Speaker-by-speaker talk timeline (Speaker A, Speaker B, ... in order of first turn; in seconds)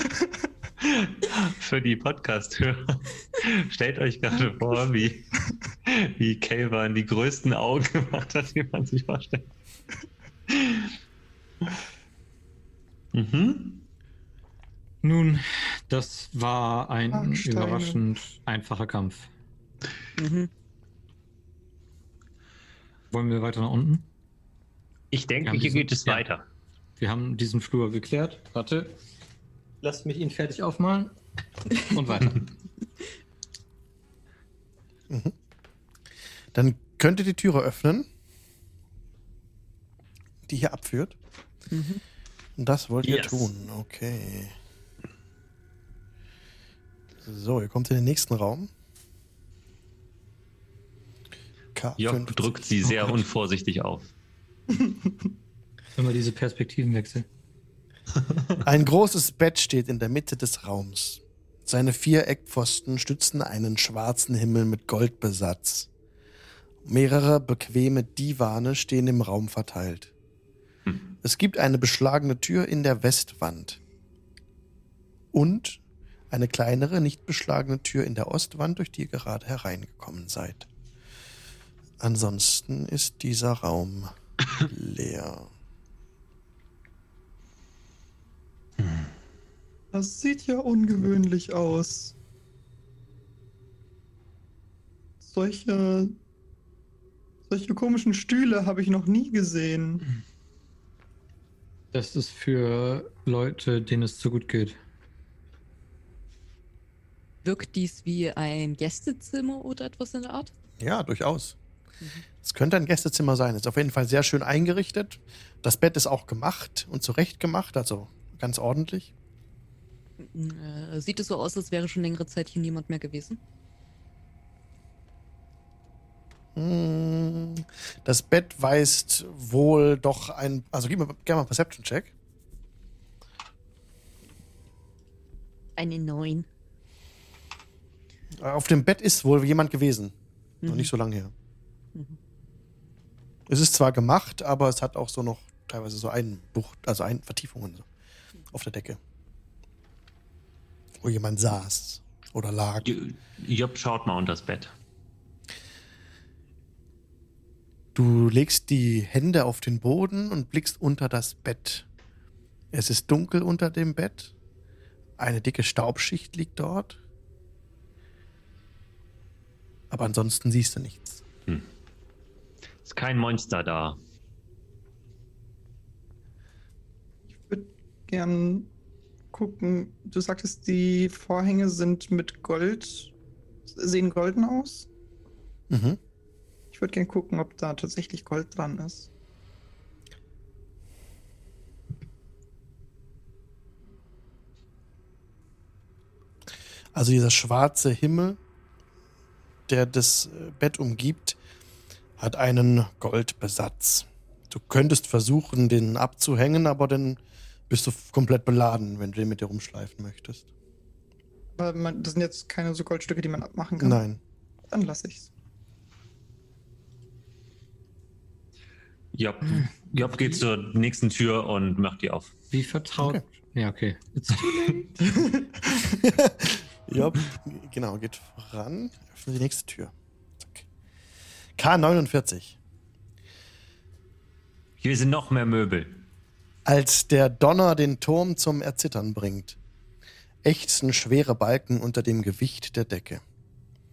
Speaker A: 0.8-5.3, 5.8-9.5, 10.5-10.9, 13.1-13.8, 25.1-26.4, 43.0-43.5, 52.0-54.1, 152.8-154.7, 172.8-174.0, 219.1-222.3, 224.4-224.7, 234.8-236.1
Speaker B: 15.0-19.3, 23.1-24.1, 25.4-26.2, 27.0-28.9, 29.8-31.1, 31.9-32.5, 56.0-57.2, 101.9-104.8, 222.5-224.9
Speaker C: 17.1-18.0, 54.7-55.3, 89.9-92.1, 95.2-96.2, 97.5-100.0, 177.4-178.7, 179.3-183.1, 183.7-184.9, 186.7-189.1, 211.6-214.0, 214.7-215.3, 225.1-225.8
Speaker D: 20.2-20.5, 41.7-42.0, 107.4-110.5, 120.2-123.4, 135.8-136.5, 140.6-140.9
Speaker E: 36.5-38.1, 40.5-41.1, 42.6-44.5, 47.2-48.7, 51.7-52.8, 58.6-65.9, 66.8-70.1, 71.2-73.8, 75.3-80.7, 82.0-84.1, 84.7-85.5, 110.8-111.5, 112.4-119.1, 126.5-132.1, 138.4-140.1, 140.7-141.3, 143.5-147.9, 148.5-149.0, 151.0-152.9, 157.9-161.8, 162.7-164.3, 165.2-167.0, 169.9-171.2, 185.7-186.0, 196.9-198.4, 199.7-201.3, 202.2-210.4, 213.8-214.2, 226.0-230.6, 231.6-232.6, 236.7-239.6, 240.4-243.2